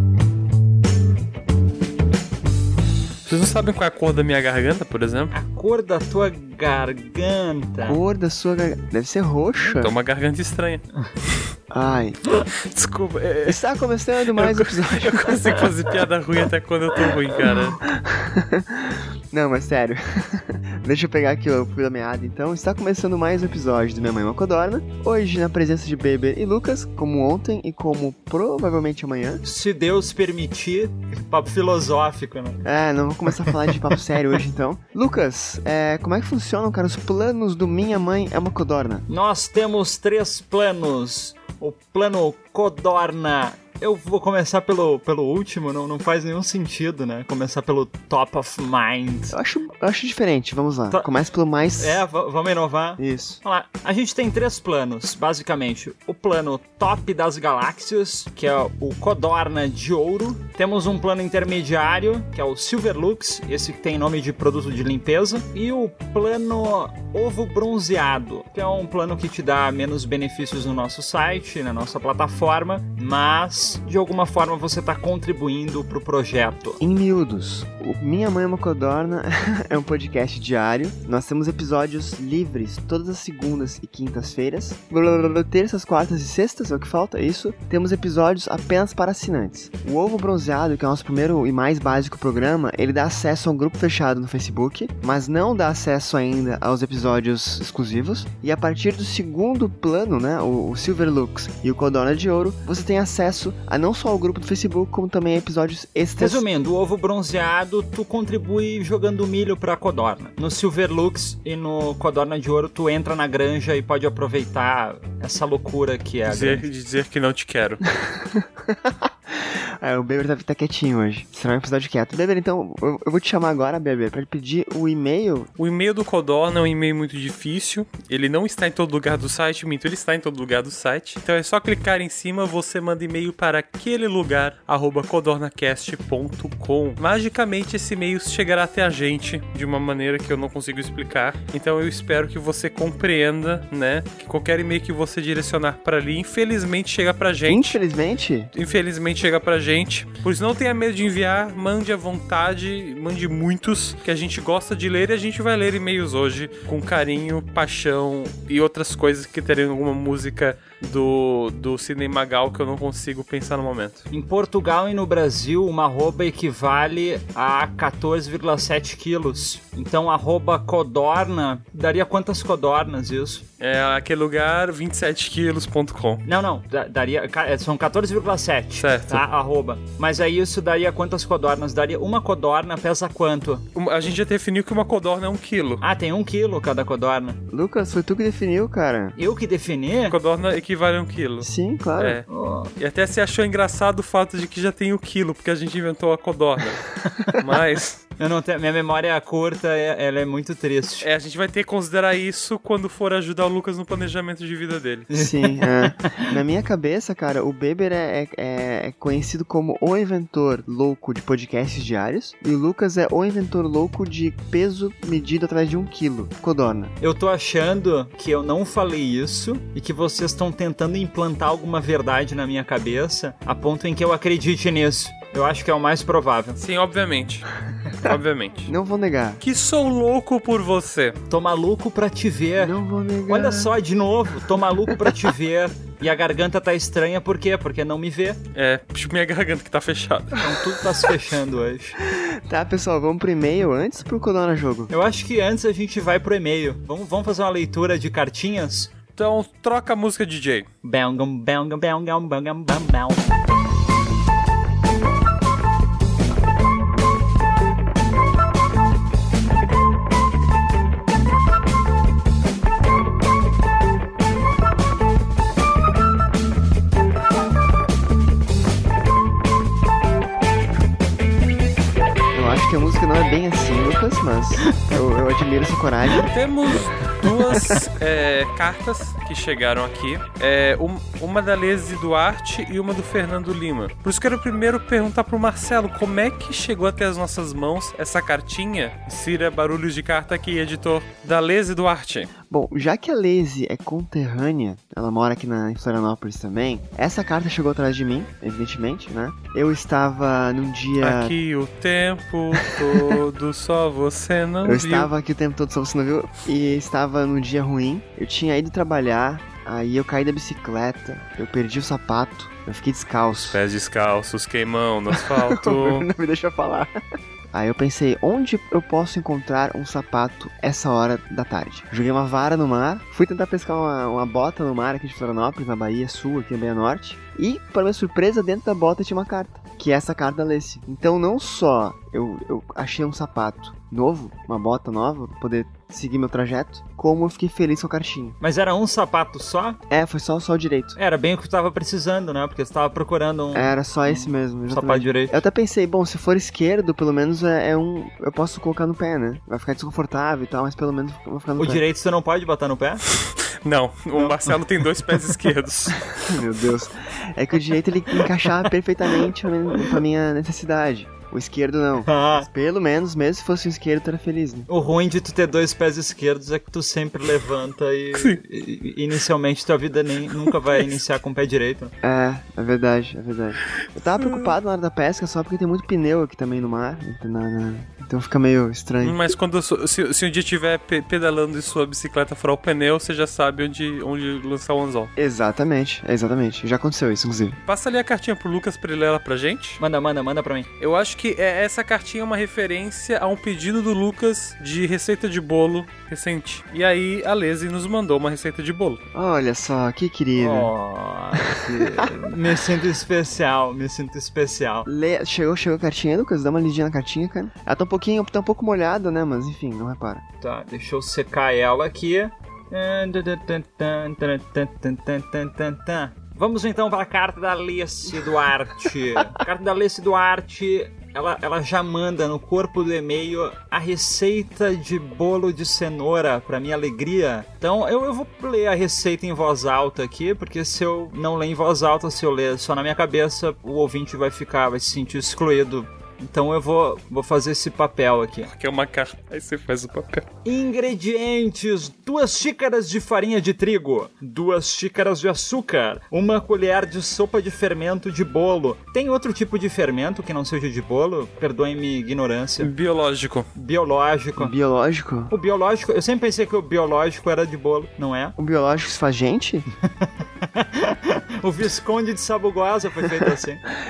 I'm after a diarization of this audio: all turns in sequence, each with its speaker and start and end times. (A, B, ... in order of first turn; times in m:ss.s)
0:03.3-0:05.3 A
0:05.3-0:08.0 B
0:07.8-0:09.9 C
0:09.8-0:11.4 A
0:11.7-0:12.2 C
0:12.7-0:13.6 A
0:13.5-0:15.6 C
0:14.4-0:17.8 A
0:17.8-0:29.4 C
0:29.4-0:32.6 B
0:32.6-0:39.1 C
0:33.4-0:34.0 B
0:39.1-0:49.4 B
0:49.3-0:52.0 C
0:51.8-1:16.8 B
0:53.0-0:53.4 C
1:16.8-1:46.4 C
1:46.2-1:56.6 B
1:56.3-1:57.8 A
1:58.0-2:05.5 C
2:05.6-2:27.8 A
2:27.5-2:28.5 C
2:28.5-2:44.0 A
2:44.1-2:53.4 B
2:53.6-2:56.2 A
2:56.3-3:03.7 B
2:58.8-2:59.2 A
3:03.7-3:05.8 A
3:05.8-3:07.4 B
3:07.5-3:09.2 C
3:09.2-3:10.2 B
3:10.1-3:18.0 A
3:11.4-3:12.2 C
3:12.3-3:12.7 B
3:17.1-3:17.3 B
3:18.2-3:21.1 B
3:21.0-3:25.1 A
3:25.1-3:26.3 B
3:25.1-3:36.9 C
3:37.0-3:46.6 B
3:46.6-3:48.7 A
3:48.7-3:49.4 C
3:49.4-3:51.2 A
3:51.3-3:52.8 B
3:52.6-3:53.7 C
3:53.3-3:58.4 B
3:58.5-4:00.4 A
4:00.4-4:02.0 B
4:02.0-4:04.9 C
4:04.9-4:08.9 B
4:09.2-4:10.7 A
4:10.8-4:13.3 B
4:32.3-4:36.3 C
4:36.2-4:52.3 A
4:52.5-5:01.4 C
5:01.0-5:05.1 A
5:02.7-5:03.2 C
5:04.6-5:13.6 C
5:13.5-5:16.1 A
5:15.1-5:16.9 C
5:17.5-5:38.4 C
5:38.4-5:39.8 B
5:39.9-5:41.0 C
5:41.0-5:45.4 B
5:43.5-5:51.8 C
5:51.6-5:53.0 B
5:53.5-5:56.4 A
5:54.2-5:54.6 B
5:56.2-6:04.7 C
6:02.0-6:02.5 B
6:04.7-6:11.9 B
6:08.2-6:08.4 A
6:12.0-6:19.2 C
6:14.2-6:14.5 A
6:19.0-6:25.1 A
6:25.2-6:27.6 C
6:27.6-6:29.8 A
6:29.8-6:30.7 B
6:30.8-6:39.0 A
6:39.1-6:40.7 C
6:40.4-6:44.9 B
6:41.4-6:42.2 C
6:44.9-6:50.2 C
6:50.4-7:18.5 B
7:18.5-7:20.3 A
7:20.4-7:32.7 B
7:32.6-7:33.5 A
7:33.6-7:34.5 B
7:34.4-7:35.3 C
7:35.3-7:38.4 B
7:38.4-7:39.6 C
7:40.0-7:43.6 B